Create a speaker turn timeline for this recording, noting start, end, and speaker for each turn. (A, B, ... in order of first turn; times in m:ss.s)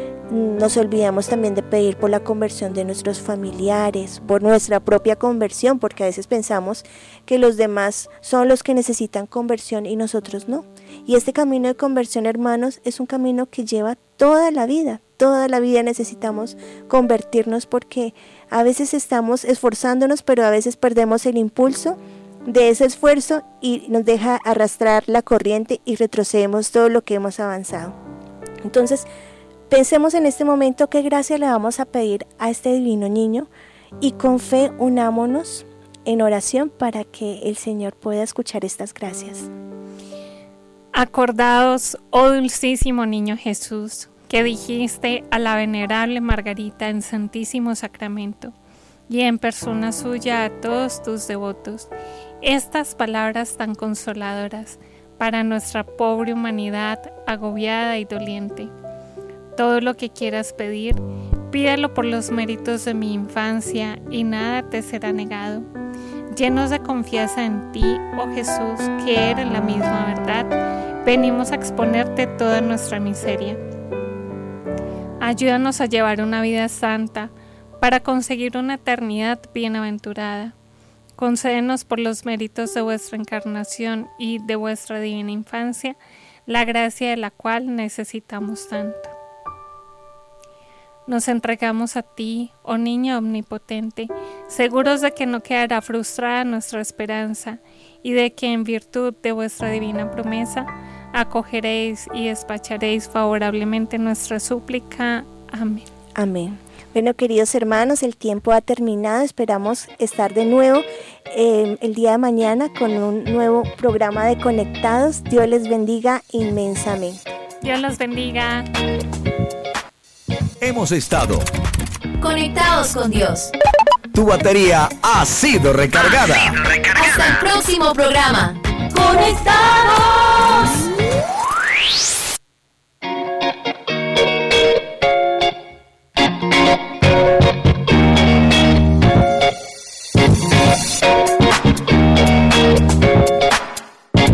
0:00.3-0:28.0 A
0:28.6-0:29.1 A
0:29.7-0:39.5 A
0:40.9-0:48.5 B
0:49.1-0:51.9 B
0:52.4-0:58.7 B
0:59.6-1:05.7 B
1:06.3-1:10.5 B
1:11.0-1:13.6 B
1:15.2-1:20.5 B
1:21.2-1:29.1 B
1:31.1-1:45.9 B
1:46.2-1:57.2 A
1:57.6-1:58.7 B
2:00.6-2:01.5 C
2:02.2-2:03.5 D
2:04.1-2:06.5 C
2:06.9-2:10.8 D